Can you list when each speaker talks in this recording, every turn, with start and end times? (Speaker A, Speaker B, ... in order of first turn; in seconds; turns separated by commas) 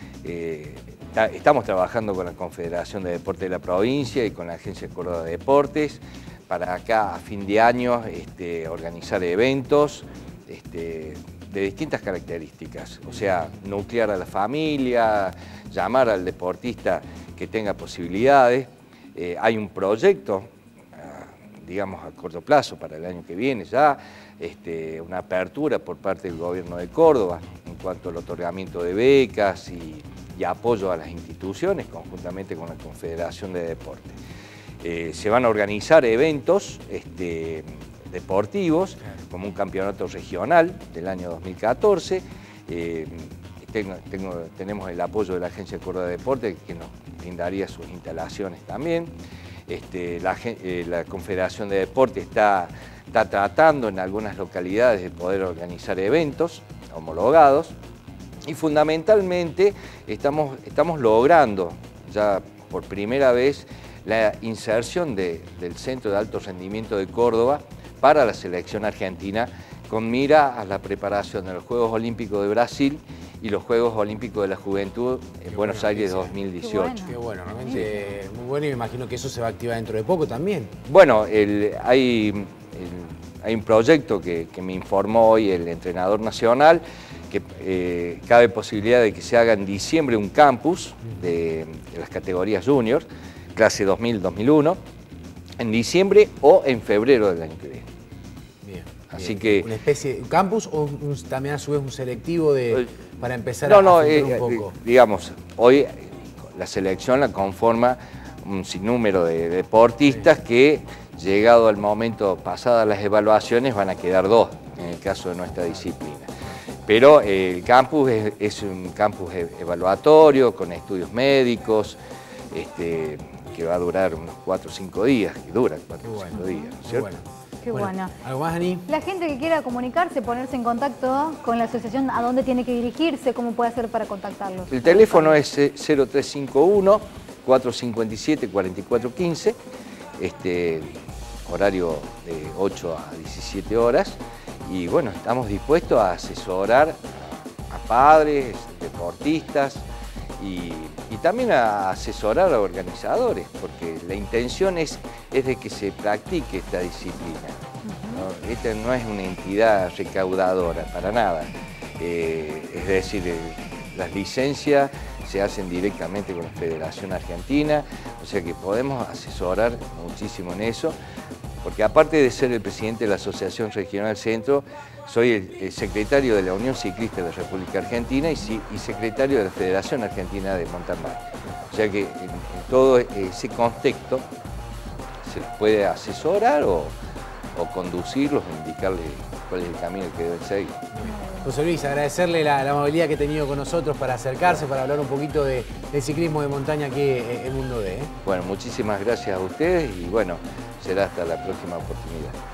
Speaker A: 0.2-34.2, Speaker A: 34.8-49.1, Speaker A: 49.7-57.7, Speaker A: 58.5-77.1, Speaker B: 75.5-76.3, Speaker C: 76.6-77.9, Speaker B: 77.1-80.7, Speaker A: 80.8-94.8, Speaker A: 95.6-97.8, Speaker B: 98.6-104.7, Speaker A: 99.1-99.7, Speaker A: 103.6-116.3, Speaker A: 116.9-122.0, Speaker A: 122.5-127.1, Speaker B: 126.0-128.9, Speaker C: 126.3-126.7, Speaker C: 127.6-128.1, Speaker C: 128.9-135.4, Speaker A: 134.7-139.6, Speaker A: 140.2-140.9, Speaker A: 141.4-149.8, Speaker A: 150.4-170.9, Speaker C: 157.8-158.2, Speaker A: 171.6-184.2, Speaker A: 185.2-186.9, Speaker A: 187.5-190.8, Speaker B: 190.9-198.1, Speaker C: 191.0-191.4, Speaker A: 198.2-202.3